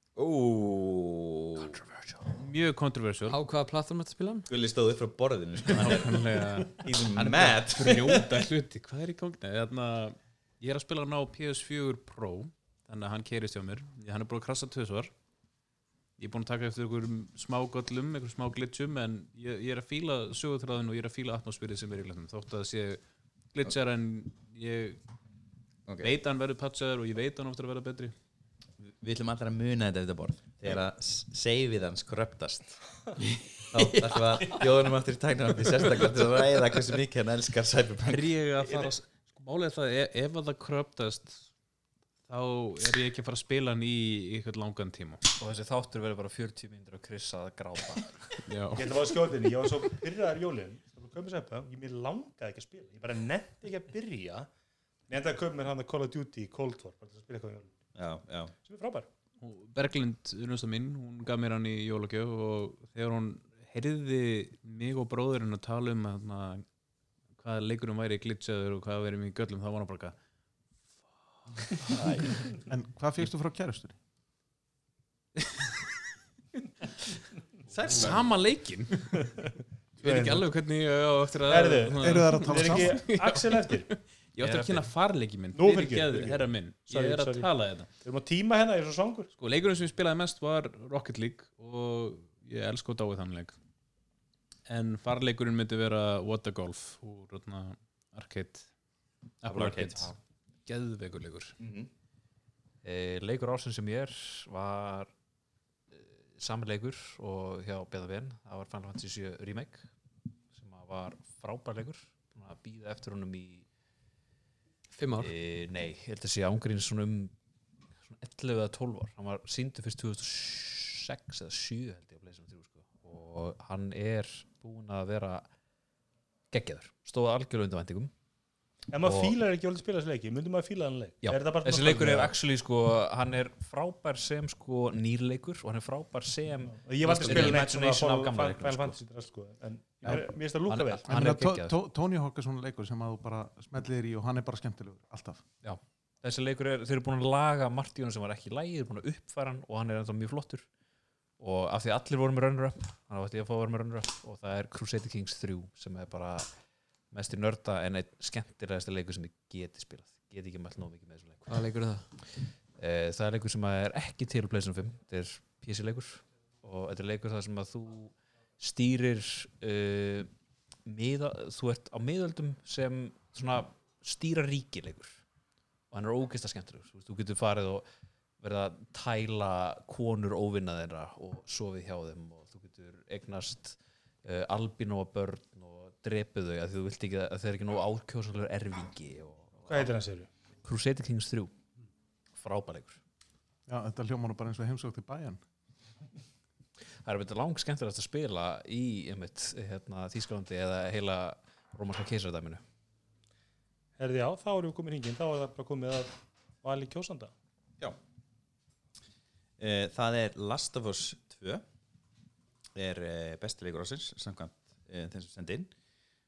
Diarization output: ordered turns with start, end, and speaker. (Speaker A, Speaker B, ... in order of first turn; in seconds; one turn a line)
Speaker A: 0.2-1.8
Speaker B: 2.3-3.4
Speaker C: 3.3-4.5
Speaker A: 4.5-6.2
Speaker B: 5.7-15.1
Speaker A: 6.7-8.3
Speaker B: 16.2-23.0
Speaker B: 23.5-25.0
Speaker A: 25.9-26.1
Speaker B: 26.0-28.1
Speaker A: 28.9-32.8
Speaker A: 33.7-38.9
Speaker B: 38.1-41.5
Speaker B: 42.3-45.2
Speaker D: 45.3-48.4
Speaker B: 48.5-48.9
Speaker E: 48.8-54.5
Speaker E: 55.1-57.7
Speaker A: 58.0-58.5
Speaker E: 58.6-59.1
Speaker B: 59.4-66.7
Speaker B: 67.4-70.2
Speaker A: 71.9-72.4
Speaker F: 72.7-74.0
Speaker A: 77.7-78.4
Speaker B: 77.9-79.2
Speaker B: 80.0-87.9
Speaker E: 80.0-80.5
Speaker E: 81.5-83.9
Speaker F: 82.0-83.1
Speaker D: 84.4-84.8
Speaker E: 85.5-87.5
Speaker E: 88.0-89.3
Speaker B: 89.4-93.6
Speaker B: 94.7-98.7
Speaker B: 99.4-100.1
Speaker A: 99.5-100.1
Speaker B: 100.7-101.6
Speaker A: 101.6-101.9
Speaker D: 102.8-105.1
Speaker D: 105.9-109.9
Speaker D: 110.5-113.7
Speaker C: 114.9-115.3
Speaker D: 115.2-117.3
Speaker D: 118.0-125.5
Speaker D: 126.5-128.1
Speaker E: 128.9-132.3
Speaker D: 129.0-129.4
Speaker D: 131.2-139.0
Speaker E: 136.7-141.1
Speaker D: 140.1-141.8
Speaker F: 141.1-145.4
Speaker D: 145.6-150.7
Speaker D: 151.4-156.5
Speaker D: 157.1-161.6
Speaker C: 161.5-162.1
Speaker D: 162.3-170.3
Speaker D: 170.9-175.2
Speaker D: 175.9-177.8
Speaker D: 178.4-189.9
Speaker E: 189.7-190.3
Speaker D: 190.6-191.5
Speaker D: 192.4-193.0
Speaker F: 193.7-195.4
Speaker D: 197.1-202.6
Speaker E: 204.0-206.1
Speaker E: 206.6-207.3
Speaker A: 209.6-211.6
Speaker A: 212.8-215.7